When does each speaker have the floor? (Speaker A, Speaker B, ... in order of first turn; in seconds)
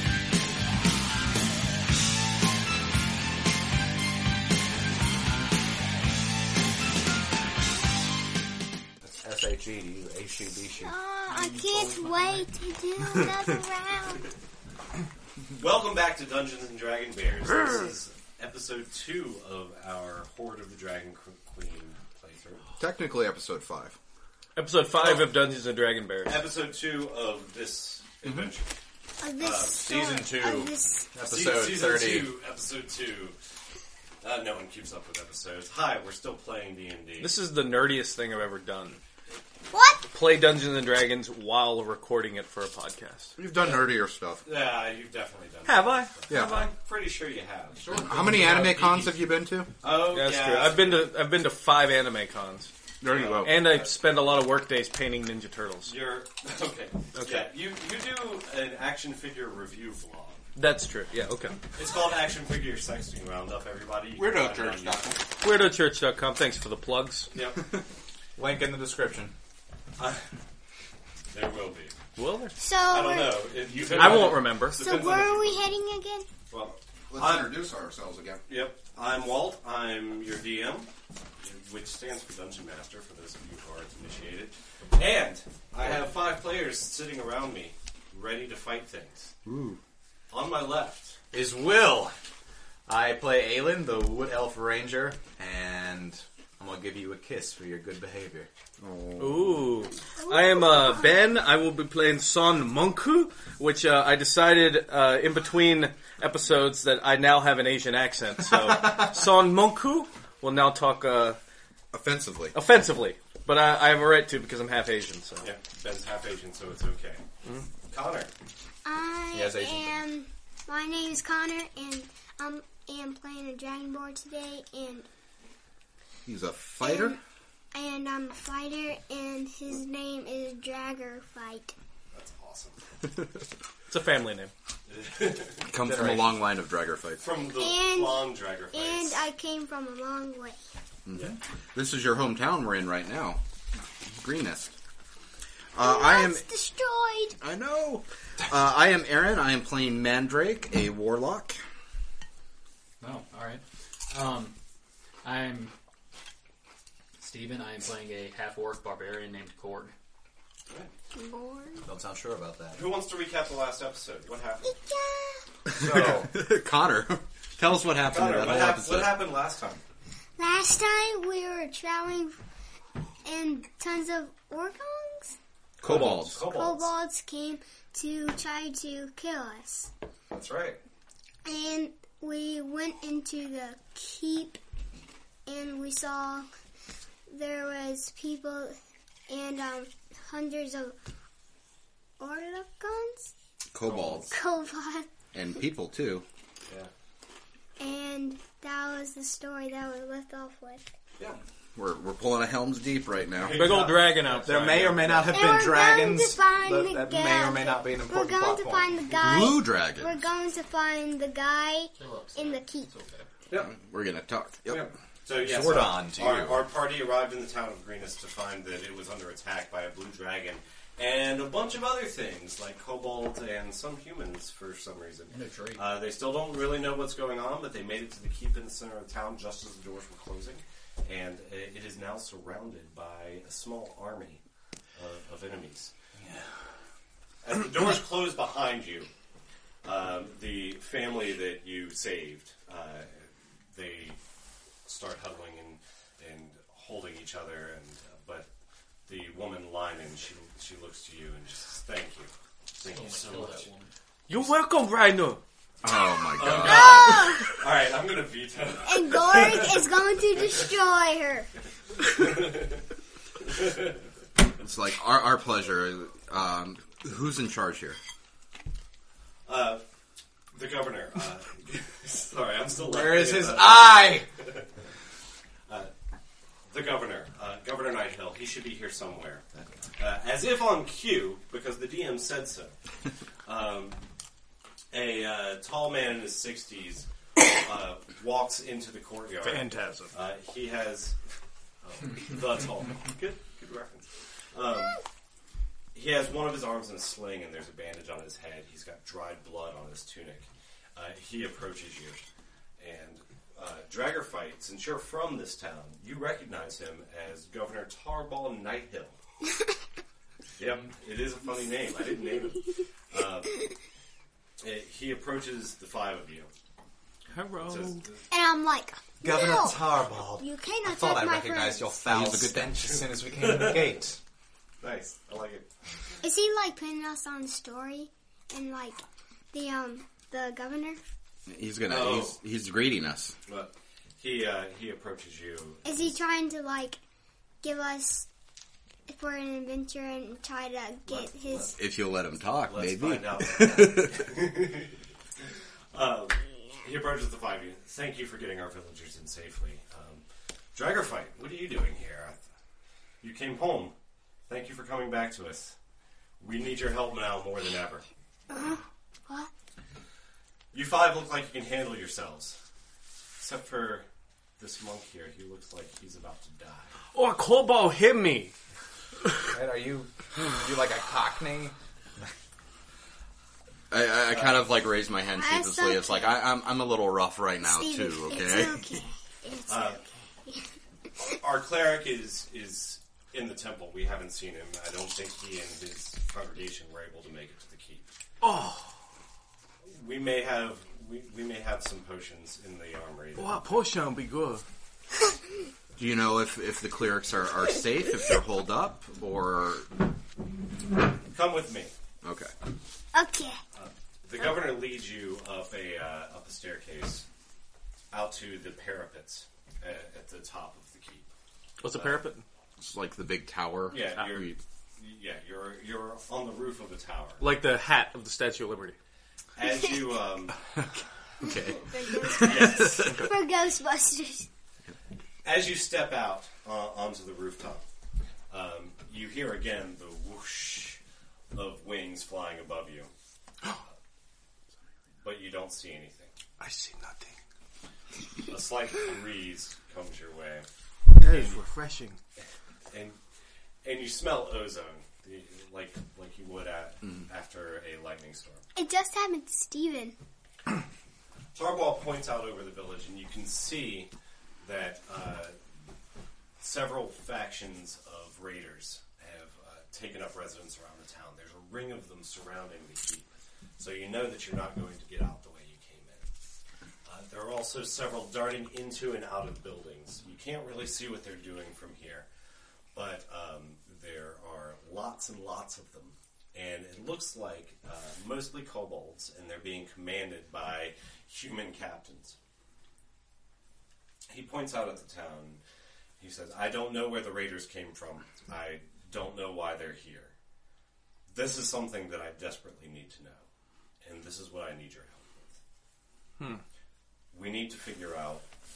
Speaker A: 9.0-10.9, 29.8-32.3, 64.2-65.2, 68.4-69.3, 73.9-74.2, 91.3-92.2, 92.9-98.5, 119.3-120.0, 135.7-136.3, 161.8-162.8, 165.7-166.3, 180.3-180.8, 204.3-209.0, 215.3-216.6, 236.2-236.5, 272.8-274.3, 319.2-324.2, 369.5-372.3
Speaker B: 10.8-14.3, 29.2-31.1, 39.7-40.1, 72.6-73.6, 74.3-76.3, 100.2-101.2, 118.8-125.1, 126.8-127.2, 127.7-131.8, 137.6-140.6, 145.8-147.4, 161.2-161.9, 164.6-165.4, 170.4-172.4, 173.2-175.4, 176.4-179.9, 181.4-184.6, 185.5-186.5, 187.3-191.0, 192.2-193.3, 194.3-195.1, 197.8-200.9, 205.3-212.9, 256.5-257.6, 258.8-261.5, 318.3-322.1, 326.2-329.0, 329.5-331.0, 335.9-337.0, 337.6-338.3, 339.1-341.8, 358.5-359.5, 375.4-376.4, 377.6-380.7, 403.1-403.6, 421.4-424.5, 448.8-450.2
Speaker C: 11.3-12.5, 47.8-49.1, 153.0-154.6, 155.2-155.7, 157.2-159.9, 212.0-213.3, 225.3-225.9, 252.9-253.9
Speaker D: 15.6-22.7, 25.0-25.3, 26.3-28.7, 29.4-29.9, 31.2-33.4, 34.2-37.4, 43.6-43.9, 44.4-48.0, 49.8-51.1, 53.0-54.2, 55.8-60.4, 61.8-65.2, 67.3-67.6, 70.0-70.2, 71.3-72.0, 72.9-75.7, 76.5-77.6, 78.5-80.9, 81.4-89.4, 90.3-91.2, 115.4-117.2, 117.9-118.3, 132.1-132.8, 134.9-135.7, 137.2-139.2, 162.7-164.7, 168.1-169.8, 175.8-176.9, 193.8-194.3, 203.4-205.5, 214.7-234.4, 235.0-235.9, 237.4-239.1, 239.8-244.2, 244.9-248.5, 249.1-253.7, 256.4-259.7, 262.1-262.8, 263.5-263.9, 269.5-269.8, 270.5-274.7, 276.7-279.4, 280.0-282.8, 283.5-284.0, 284.9-291.2, 291.8-295.0, 295.9-302.2, 302.8-309.1, 310.6-313.6, 314.6-316.5, 317.6-318.2, 322.8-324.0, 324.8-325.7, 331.9-332.4, 333.5-336.2, 341.1-341.8, 342.6-344.9, 345.9-350.2, 350.7-352.4, 353.2-353.9, 354.5-355.8, 356.4-358.1, 360.7-362.6, 363.4-364.1, 364.6-367.0, 379.7-380.0, 381.2-388.1, 389.9-393.8, 401.3-401.9, 403.8-407.3, 408.1-411.3, 411.9-412.2, 413.9-417.5, 419.6-420.5, 422.4-422.8, 425.4-427.9, 428.5-431.0, 431.5-433.1, 435.2-436.4, 438.5-440.7, 441.2-441.6, 442.9-443.2, 443.8-448.7, 451.5-455.6, 456.6-466.3, 467.1-472.3, 472.9-482.4, 484.3-485.6, 486.2-490.3, 491.3-493.4, 494.0-495.6, 497.3-498.4
Speaker E: 22.8-24.0, 28.2-28.5, 43.4-44.4, 46.3-46.7, 47.9-49.7, 53.0-53.5, 64.2-64.9, 77.1-78.4, 98.8-99.7, 111.9-112.6, 126.2-127.2, 135.7-137.2, 141.1-143.4, 144.0-144.7, 145.7-146.5, 147.4-151.6, 165.7-169.2, 175.8-176.5, 193.7-194.3, 195.3-196.2, 201.8-203.7, 209.2-210.2, 213.5-214.8, 255.8-257.2, 264.6-268.0, 322.1-322.7, 331.5-333.4, 341.8-344.3, 373.9-378.9, 396.0-399.9, 402.2-402.5, 412.8-414.6, 421.4-423.3
Speaker F: 24.6-26.4, 37.2-39.0, 40.1-43.3, 45.7-46.7, 49.9-52.7, 53.4-55.9, 57.1-57.5, 60.6-61.6, 65.4-67.3, 72.2-72.5, 73.8-74.8, 99.2-111.4, 112.5-115.5, 133.9-134.5, 203.5-205.2, 254.3-255.4, 289.4-290.1, 317.3-318.0, 367.1-368.5, 388.4-388.9, 393.4-394.6, 411.8-412.4, 417.4-419.0, 436.6-437.4, 441.2-442.2